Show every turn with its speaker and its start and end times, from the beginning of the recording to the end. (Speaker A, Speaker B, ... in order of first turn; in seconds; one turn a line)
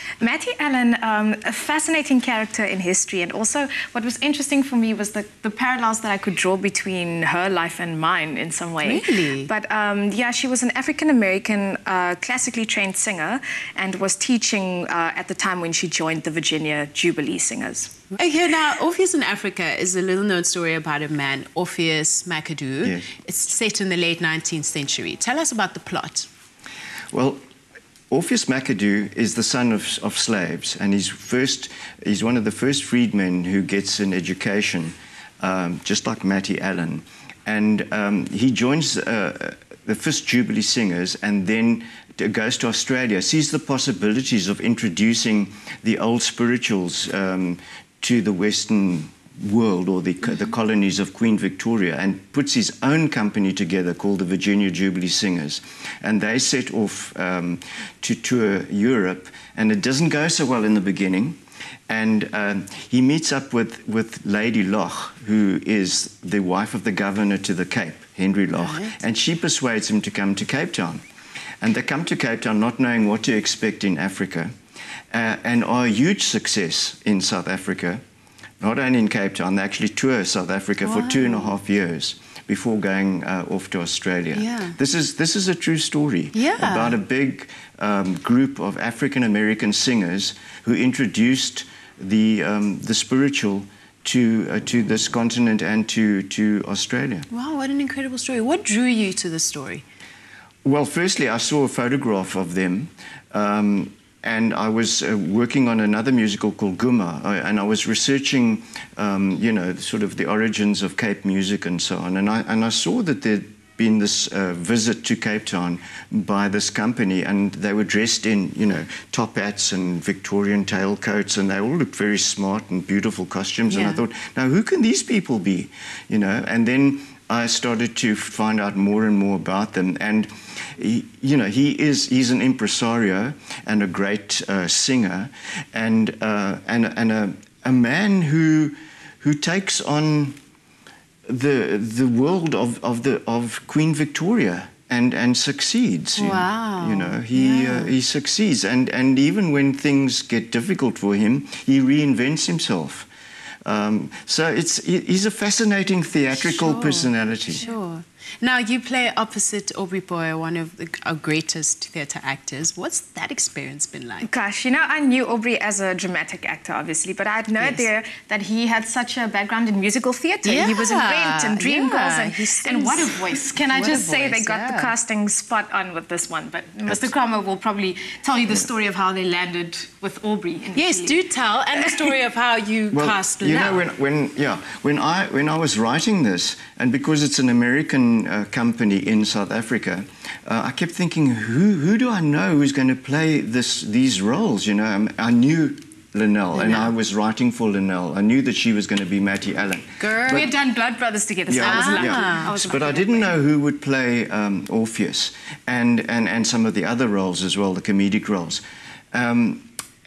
Speaker A: 0.2-17.9
Speaker B: 8.8-9.5
Speaker B: 18.1-26.3
Speaker C: 27.1-27.4
Speaker C: 28.1-61.4
Speaker C: 61.9-71.0
Speaker B: 68.6-69.0
Speaker C: 71.6-74.5
Speaker C: 75.1-78.0
Speaker C: 78.6-97.3
Speaker B: 80.8-81.5
Speaker B: 84.3-84.8
Speaker B: 86.3-87.0
Speaker B: 97.3-99.8
Speaker C: 100.7-140.4
Speaker B: 123.7-124.0
Speaker C: 141.3-153.1
Speaker B: 146.2-147.9
Speaker C: 153.7-157.6
Speaker B: 156.3-164.3
Speaker A: 164.2-181.2
Speaker B: 167.6-167.9
Speaker B: 170.4-174.9
Speaker B: 180.7-183.8
Speaker C: 182.9-200.5
Speaker B: 196.5-196.9
Speaker B: 200.0-200.5
Speaker A: 200.3-203.4
Speaker C: 201.5-208.6
Speaker B: 201.6-202.6
Speaker C: 209.1-209.7